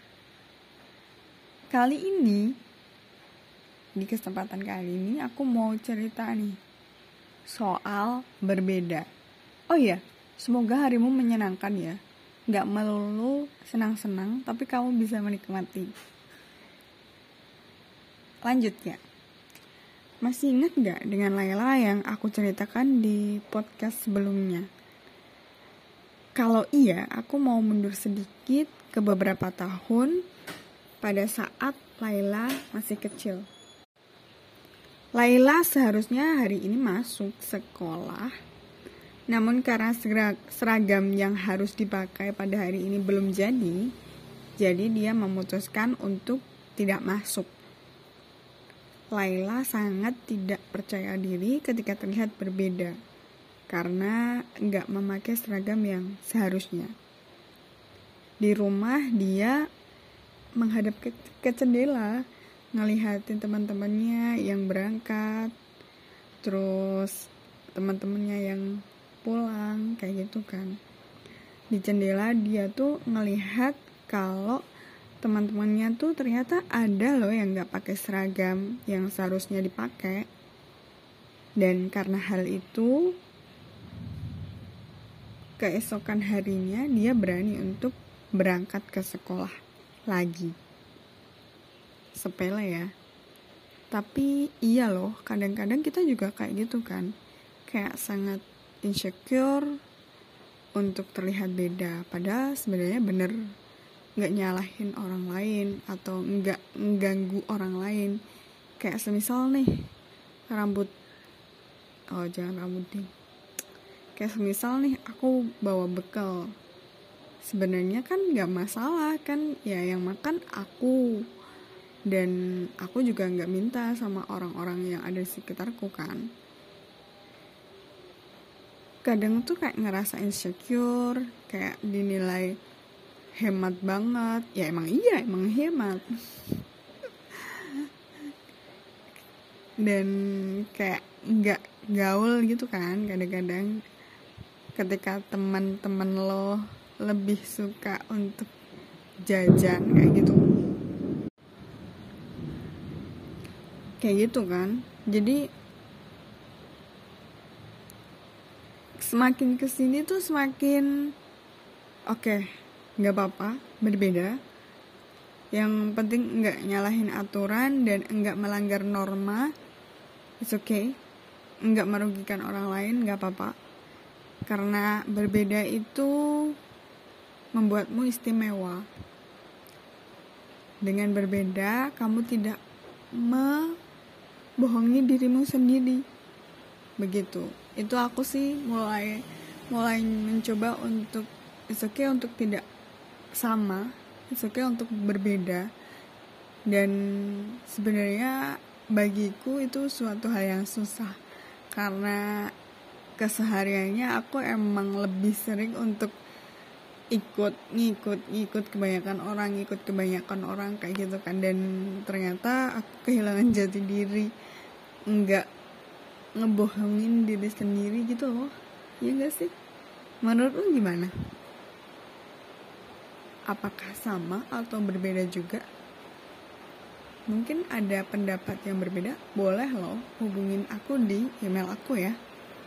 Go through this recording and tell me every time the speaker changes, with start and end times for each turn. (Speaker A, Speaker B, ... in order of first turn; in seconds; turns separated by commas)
Speaker A: 1.7-2.5, Speaker A: 4.0-6.6, Speaker A: 7.5-9.1, Speaker A: 9.7-12.0, Speaker A: 12.5-15.9, Speaker A: 18.4-19.0, Speaker A: 20.2-24.7, Speaker A: 26.4-30.2, Speaker A: 31.0-33.5, Speaker A: 35.1-38.3, Speaker A: 39.3-43.9, Speaker A: 44.6-47.5, Speaker A: 49.1-53.0, Speaker A: 53.7-56.9, Speaker A: 58.4-59.6, Speaker A: 60.6-62.2, Speaker A: 62.8-65.5, Speaker A: 66.4-70.8, Speaker A: 71.7-74.6, Speaker A: 75.2-80.3, Speaker A: 81.6-83.2, Speaker A: 85.6-89.6, Speaker A: 90.1-90.5, Speaker A: 92.2-92.9, Speaker A: 93.9-97.1, Speaker A: 97.7-99.8, Speaker A: 100.8-103.3, Speaker A: 104.2-108.2, Speaker A: 108.8-109.7, Speaker A: 110.5-110.9, Speaker A: 112.1-113.1, Speaker A: 114.2-116.5, Speaker A: 117.4-121.2, Speaker A: 122.1-126.2, Speaker A: 129.0-132.6, Speaker A: 133.4-136.4, Speaker A: 137.3-137.9, Speaker A: 139.8-143.8, Speaker A: 144.8-148.5, Speaker A: 149.3-150.7, Speaker A: 154.0-155.4, Speaker A: 159.0-160.9, Speaker A: 162.1-162.5, Speaker A: 163.0-164.4, Speaker A: 165.5-169.5, Speaker A: 170.4-170.9, Speaker A: 171.7-173.5, Speaker A: 174.5-176.6, Speaker A: 177.6-178.8, Speaker A: 180.8-182.6, Speaker A: 183.2-183.8, Speaker A: 184.6-186.0, Speaker A: 187.0-192.6, Speaker A: 193.4-195.7, Speaker A: 196.7-198.4, Speaker A: 198.9-201.2, Speaker A: 201.7-202.2, Speaker A: 203.2-206.1, Speaker A: 207.1-214.3, Speaker A: 215.1-215.5, Speaker A: 216.4-219.5, Speaker A: 220.2-221.1, Speaker A: 223.5-225.6, Speaker A: 227.3-232.2